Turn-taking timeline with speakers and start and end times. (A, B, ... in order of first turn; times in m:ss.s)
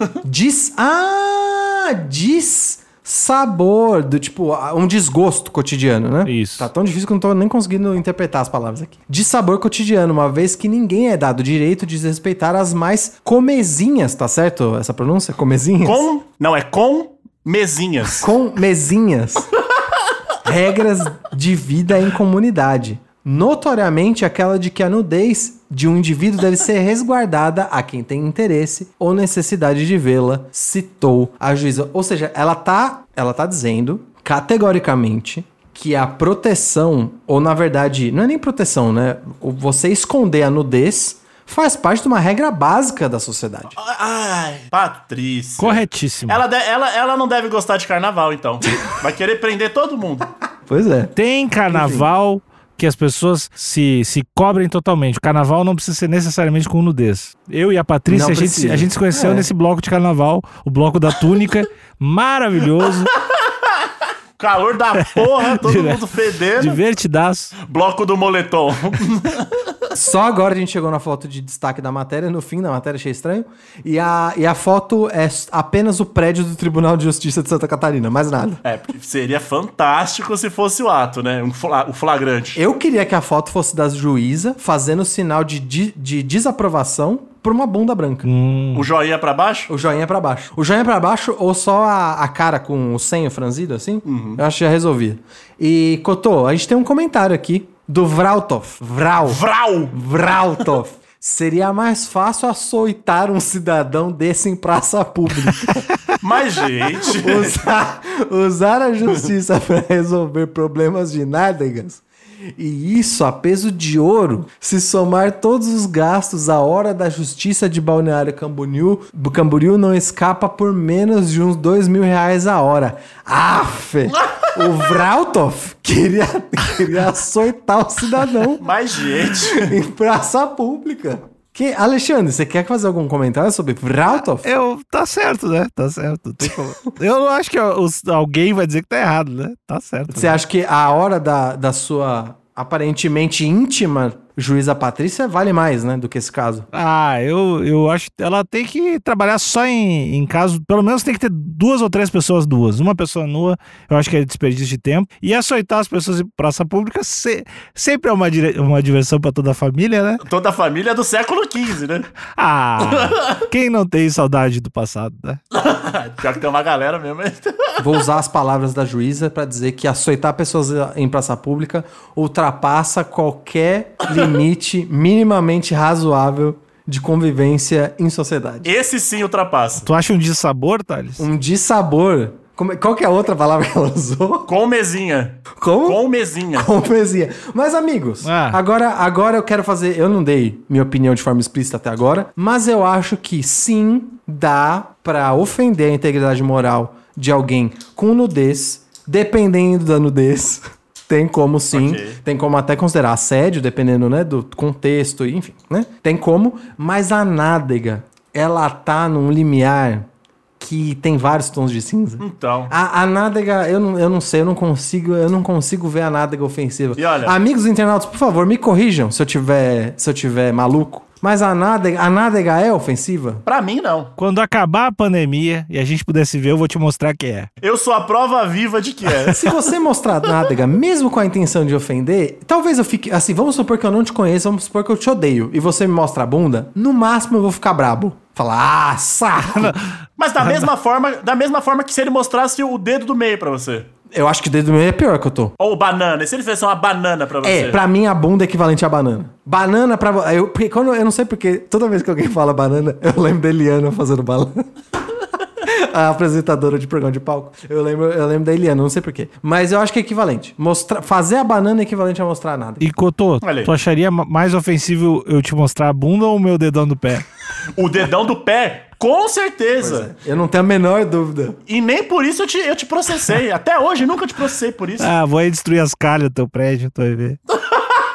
0:00.2-0:16.1 A
0:06.2-0:06.7 B
0:15.8-0:18.3 C
0:18.2-0:19.5 A
0:20.4-0:43.8 A
0:43.8-0:50.3 C
0:45.6-0:46.4 B
0:50.7-0:51.1 A
0:51.2-1:03.1 B
0:51.7-0:52.1 A
0:58.1-0:59.5 A
1:04.4-1:06.8 C
1:05.0-1:07.6 B
1:07.6-1:09.7 C
1:09.9-1:18.6 A
1:18.6-1:22.6 C
1:22.6-1:28.3 A
1:28.2-1:28.9 B
1:28.7-1:29.7 C
1:29.7-1:46.0 A
1:34.1-1:34.4 C
1:39.2-1:40.0 C
1:46.2-1:47.6 C
1:47.0-1:52.0 A
1:52.6-2:08.6 A
2:08.6-2:09.7 C
2:09.2-2:14.5 A
2:14.4-2:20.4 B
2:20.1-2:26.7 A
2:26.7-2:40.2 B
2:40.2-2:42.1 C
2:42.3-2:45.4 B
2:42.8-2:43.2 C
2:45.5-2:47.8 C
2:47.8-2:58.7 A
2:58.6-2:59.9 C
2:59.8-3:01.3 B
3:01.2-3:04.5 A
3:04.5-3:06.7 C
3:05.5-3:06.0 A
3:06.5-3:30.1 A
3:08.2-3:08.6 B
3:21.7-3:22.2 C
3:30.6-3:43.4 A
3:32.2-3:32.7 C
3:37.0-3:37.4 C
3:43.5-3:44.1 C
3:44.2-3:47.5 B
3:47.6-3:49.5 C
3:49.3-3:59.8 A
3:59.5-3:59.9 B
4:00.2-4:03.9 C
4:04.1-4:05.5 A
4:05.6-4:07.8 C
4:07.4-4:14.7 A
4:15.6-4:22.9 A
4:22.8-4:27.2 B
4:23.4-4:23.7 C
4:27.8-4:30.1 C
4:29.8-4:31.6 A
4:31.7-4:35.1 C
4:35.0-4:37.4 B